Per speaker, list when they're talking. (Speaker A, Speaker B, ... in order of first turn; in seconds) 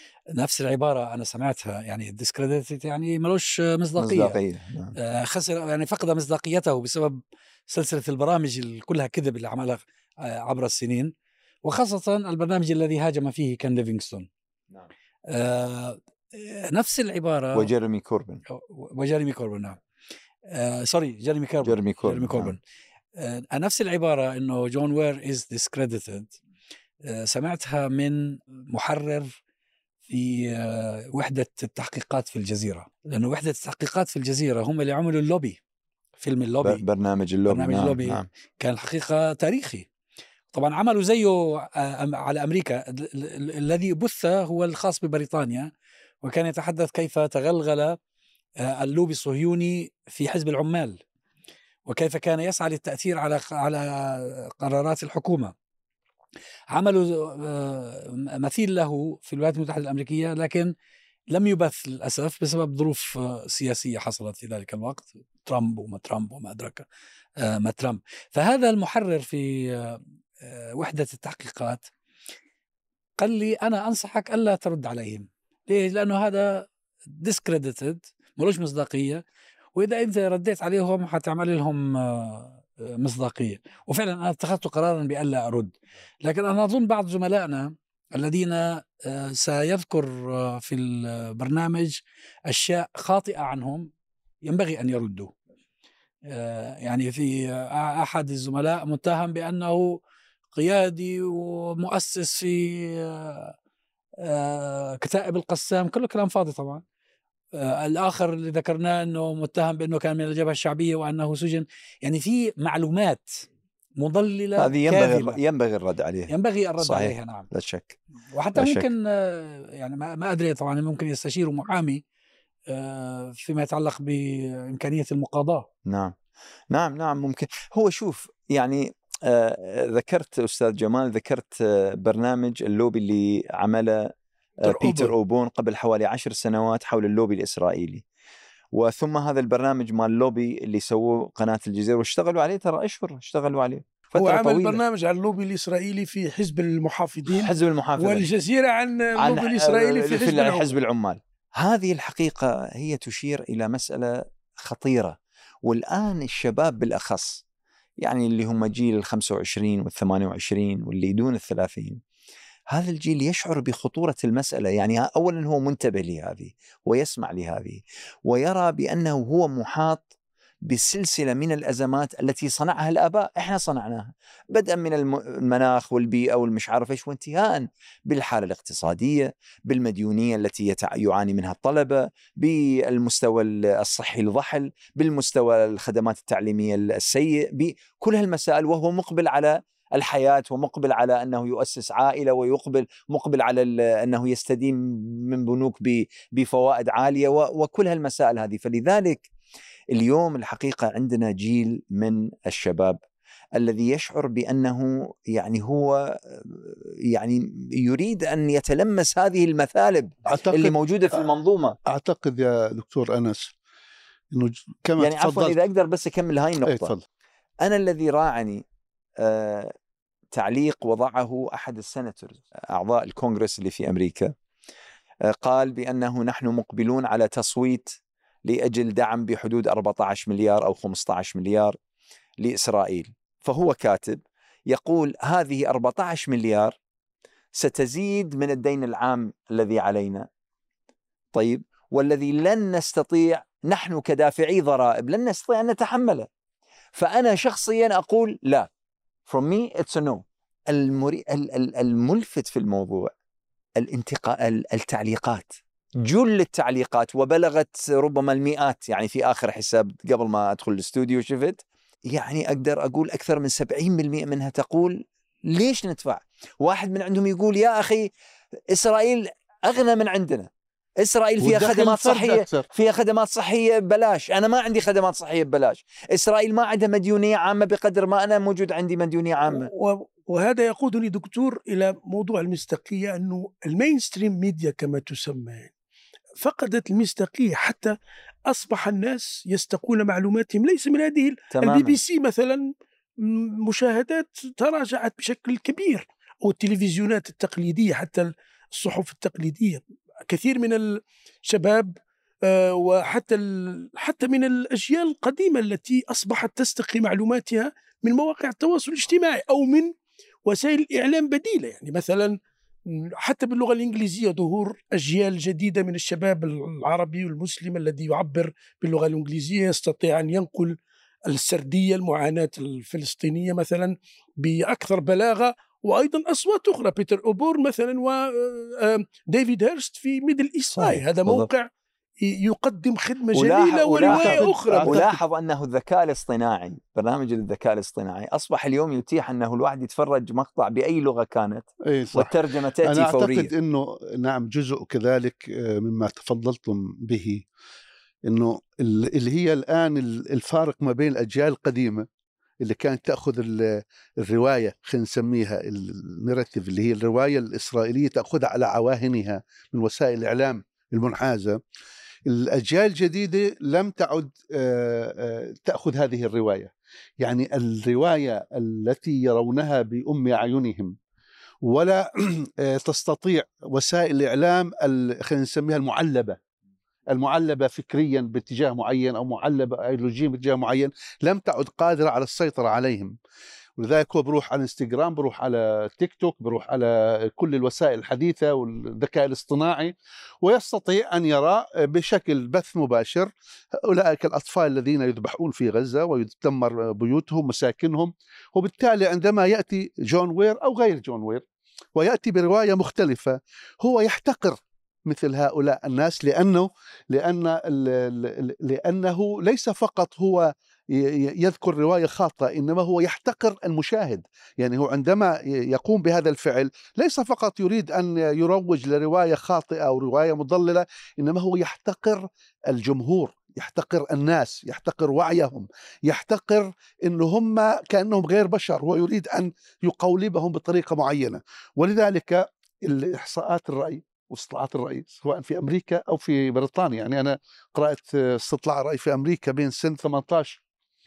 Speaker A: 0.4-4.4, 5.0-11.1, 11.6-14.3, 15.3-17.7, 18.5-19.8, 20.5-22.6, 23.2-26.3, 27.1-29.3, 30.1-35.6, 36.2-36.8, 37.5-39.9, 40.5-48.0, 48.6-51.0, 51.9-55.5, 56.7-60.7, 61.3-66.9, 67.4-71.9, 73.2-79.2, 79.8-93.9, 94.4-95.3, 96.3-100.0, 100.5-103.5, 104.2-106.8, 107.5-113.4, 114.0-115.4, 116.3-117.5, 118.3-122.0, 122.7-125.7
Speaker B: 4.0-5.0, 17.6-18.4, 21.6-22.6, 36.6-38.3, 114.6-118.0, 118.6-118.8, 125.8-126.1, 126.7-134.1, 134.6-138.0, 138.7-144.8, 147.3-148.3, 149.2-157.4, 158.0-162.0, 162.7-170.0, 170.7-199.2, 199.9-203.0, 203.6-211.8, 215.0-216.9, 217.6-218.6, 219.2-219.7, 220.3-224.3, 225.3-227.9, 228.4-231.8, 232.4-236.8, 237.5-240.3, 241.3-246.3, 246.9-248.7, 249.3-253.1, 253.8-268.1, 268.7-279.7, 291.5-292.0, 330.8-331.5, 333.3-343.5
Speaker C: 134.6-135.1, 144.2-150.7, 279.5-285.7, 286.4-287.9, 288.5-292.6, 293.2-312.4, 312.9-320.8, 321.3-331.7, 332.2-335.1
Speaker D: 210.3-210.8, 211.9-213.5, 214.3-215.6, 216.7-217.0, 271.4-272.6, 334.1-335.2, 341.9-347.4, 348.3-352.1, 352.6-361.6, 362.3-370.9, 371.6-376.4, 377.1-383.1, 383.8-393.3, 393.9-401.4, 401.9-440.6